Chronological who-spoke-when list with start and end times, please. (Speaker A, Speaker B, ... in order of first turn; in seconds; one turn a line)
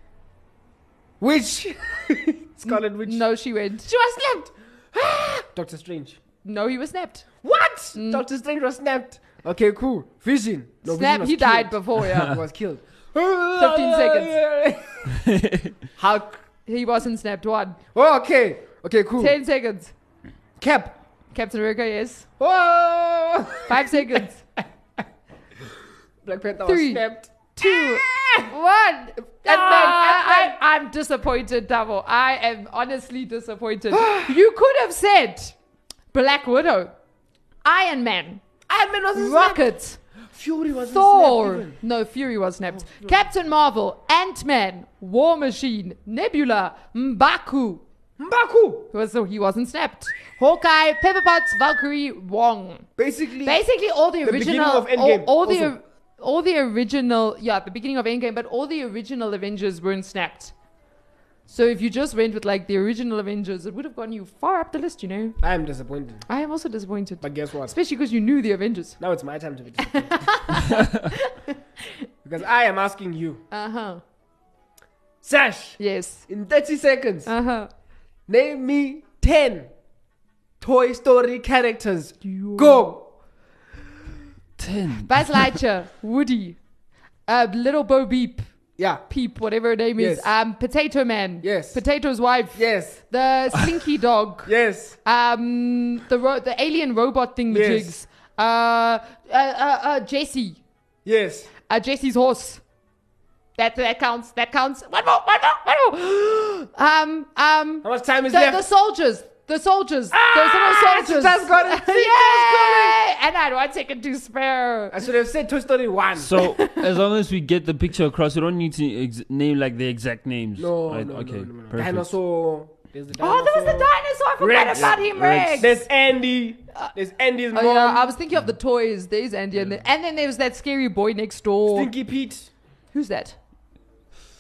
Speaker A: 1.2-3.2
Speaker B: 2.6-3.9
Speaker A: 3.9-6.2
Speaker B: 6.4-7.3
Speaker A: 7.4-15.1
Speaker B: 8.0-8.2
Speaker B: 10.8-12.4
Speaker B: 13.6-14.4
Speaker C: 15.1-15.7
Speaker A: 16.0-16.4
Speaker B: 16.6-17.8
Speaker A: 17.9-19.4
Speaker B: 19.2-19.9
Speaker A: 20.6-21.0
Speaker B: 21.3-22.3
Speaker A: 22.4-24.2
Speaker B: 23.7-24.4
Speaker A: 26.2-28.5
Speaker B: 26.6-35.6
Speaker A: 29.4-30.6
Speaker A: 33.9-34.4
Speaker B: 36.1-37.0
Speaker B: 37.6-38.4
Speaker A: 38.7-39.7
Speaker B: 39.1-40.0
Speaker A: 40.3-41.8
Speaker B: 40.9-47.8
Speaker A: 42.7-43.2
Speaker A: 48.2-48.9
Speaker B: 48.9-52.9
Speaker A: 53.0-53.6
Speaker B: 53.4-60.5
Speaker A: 54.2-55.7
Speaker B: 61.5-65.4
Speaker A: 65.4-66.3
Speaker B: 66.3-69.0
Speaker A: 67.2-67.8
Speaker A: 69.0-70.6
Speaker B: 69.8-71.6
Speaker A: 72.2-73.4
Speaker B: 73.5-74.0
Speaker A: 75.2-77.3
Speaker B: 75.8-76.2
Speaker B: 77.3-77.7
Speaker A: 78.3-79.7
Speaker A: 80.6-83.1
Speaker B: 82.2-82.8
Speaker C: 84.6-85.5
Speaker B: 85.0-86.6
Speaker B: 87.3-88.5
Speaker A: 88.8-89.1
Speaker B: 89.0-100.6
Speaker A: 90.0-90.4
Speaker A: 91.4-91.8
Speaker A: 92.5-93.0
Speaker A: 94.5-95.0
Speaker A: 97.5-98.0
Speaker A: 101.0-101.5
Speaker B: 101.7-102.6
Speaker B: 103.6-115.0
Speaker A: 107.8-108.7
Speaker A: 110.1-113.0
Speaker A: 114.9-116.3
Speaker C: 116.2-122.2
Speaker B: 116.4-116.9
Speaker A: 120.6-128.2
Speaker B: 123.2-125.8
Speaker C: 124.7-125.8
Speaker B: 127.5-131.9
Speaker A: 131.7-132.5
Speaker B: 132.9-133.4